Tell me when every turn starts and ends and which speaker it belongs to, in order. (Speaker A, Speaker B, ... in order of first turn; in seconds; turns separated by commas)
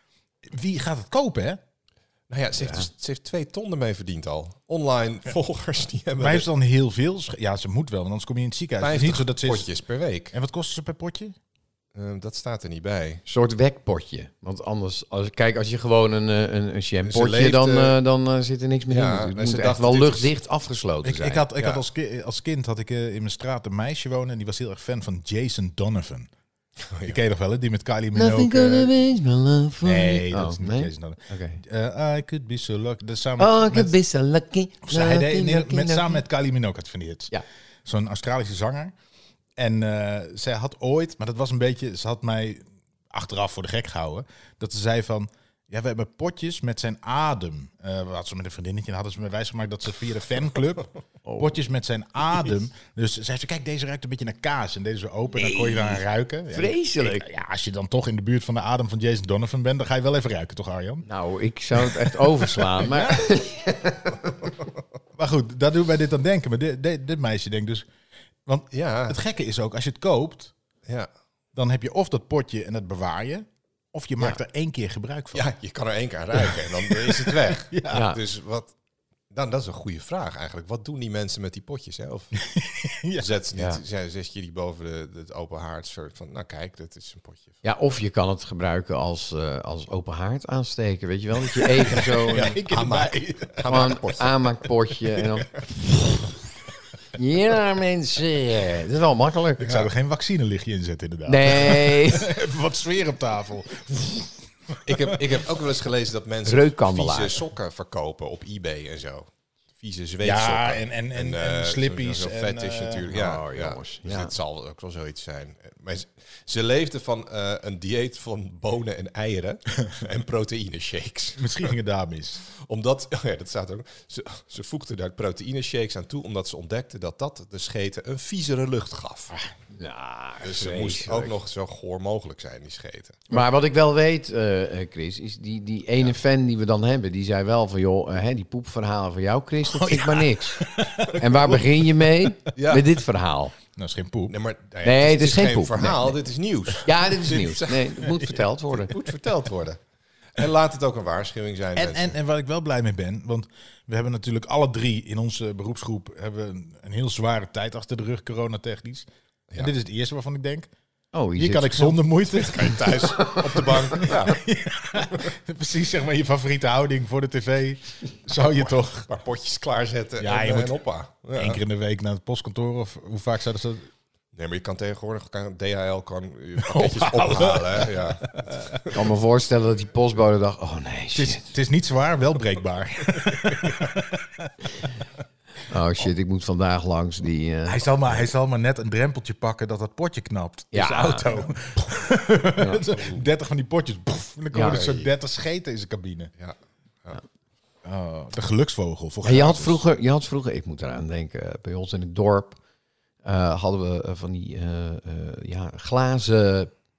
Speaker A: 0.4-1.6, Speaker B: 2.3-6.5, Speaker C: 2.6-2.9, Speaker A: 6.2-9.7, Speaker B: 8.8-10.3, Speaker A: 10.3-11.3, Speaker B: 11.9-13.2, Speaker C: 13.2-21.4, Speaker B: 17.0-18.0, Speaker B: 18.9-20.3, Speaker A: 21.0-26.3, Speaker B: 26.9-27.2, Speaker A: 27.0-29.0, Speaker C: 28.1-31.6, Speaker A: 29.8-33.9, Speaker C: 33.4-36.2, Speaker A: 34.9-37.3, Speaker A: 37.8-38.9, Speaker A: 39.6-61.0, Speaker C: 51.2-51.5, Speaker C: 55.3-57.2, Speaker C: 61.1-64.3, Speaker A: 62.8-63.2, Speaker A: 65.2-67.9, Speaker A: 68.5-70.5, Speaker B: 68.7-69.2, Speaker A: 71.5-75.5, Speaker B: 75.3-78.7, Speaker A: 76.4-78.1, Speaker C: 77.9-78.2, Speaker B: 79.3-82.4, Speaker A: 82.4-83.3, Speaker B: 83.2-87.5, Speaker C: 87.6-92.6, Speaker A: 91.9-93.7, Speaker B: 91.9-94.6, Speaker C: 93.7-95.9, Speaker C: 97.1-99.7, Speaker A: 99.6-105.1, Speaker C: 101.3-102.3, Speaker B: 104.8-109.3, Speaker C: 106.5-107.4, Speaker B: 109.8-121.5, Speaker A: 110.2-113.1, Speaker C: 113.1-114.3, Speaker A: 121.4-122.4, Speaker B: 122.6-129.3, Speaker C: 129.7-131.3, Speaker B: 130.4-133.3, Speaker C: 133.3-143.5, Speaker A: 139.7-141.6, Speaker B: 142.6-142.9, Speaker A: 143.8-144.3, Speaker B: 144.3-149.8, Speaker C: 144.8-146.2, Speaker C: 146.8-148.9, Speaker B: 150.3-152.1, Speaker A: 151.7-160.7, Speaker C: 161.1-162.0, Speaker A: 161.3-169.1, Speaker B: 162.3-164.4, Speaker B: 169.1-171.6, Speaker A: 170.2-170.8, Speaker A: 171.3-173.9, Speaker B: 174.3-179.0, Speaker A: 176.6-178.7, Speaker C: 178.9-181.5, Speaker A: 181.1-184.7, Speaker C: 185.6-187.8, Speaker A: 187.7-196.3, Speaker C: 190.7-191.4, Speaker C: 192.6-192.8, Speaker B: 192.9-193.2, Speaker C: 194.5-194.8, Speaker B: 194.6-195.1, Speaker B: 196.4-197.2, Speaker A: 197.8-199.8, Speaker C: 199.2-202.6, Speaker C: 203.2-206.7